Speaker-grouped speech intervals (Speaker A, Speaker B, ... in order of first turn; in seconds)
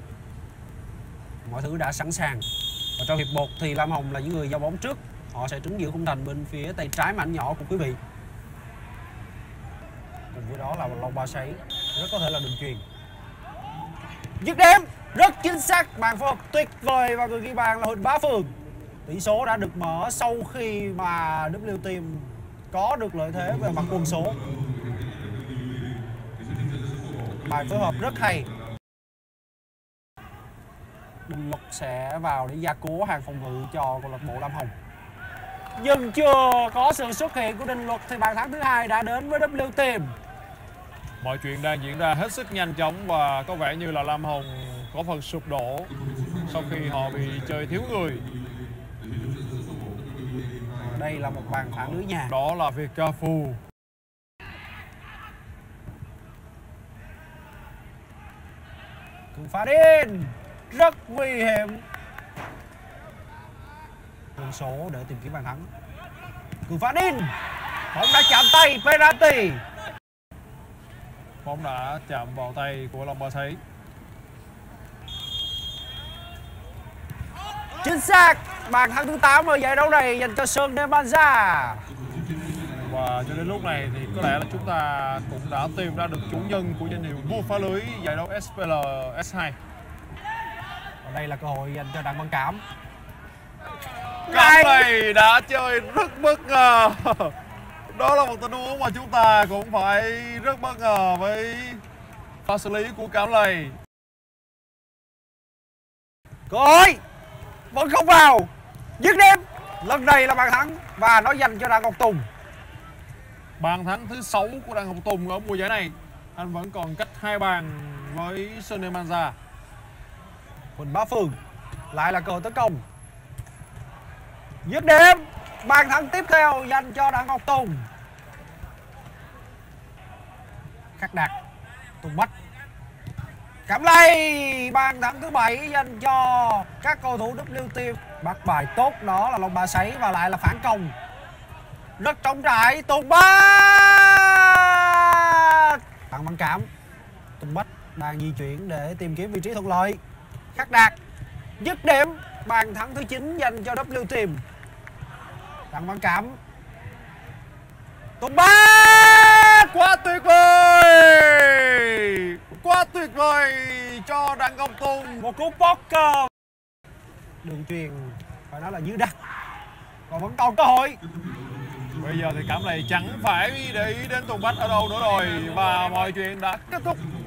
Speaker A: 1.4-2.5, 3.0-8.0, 10.3-12.8, 14.4-18.5, 19.1-24.4, 27.4-28.5, 31.3-34.7, 35.8-40.1, 50.8-52.3, 59.3-61.8, 64.3-65.7, 66.7-67.3, 67.9-69.6, 77.8-81.8, 91.0-92.6, 94.3-94.9, 106.5-107.0, 107.7-112.3, 120.8-121.4, 121.9-122.8, 124.6-127.9, 130.9-131.3, 132.0-132.3, 133.7-140.9, 142.0-146.7, 147.4-150.0, 150.5-151.0, 151.6-154.4, 155.7-156.4, 158.2-159.6, 165.2-166.3, 167.4-169.1, 170.1-171.0
Speaker B: 41.2-48.3, 52.3-53.6, 71.4-73.6, 82.8-89.5, 94.3-97.3, 97.9-101.8, 102.5-103.8, 113.6-119.3, 159.2-165.2, 172.0-177.0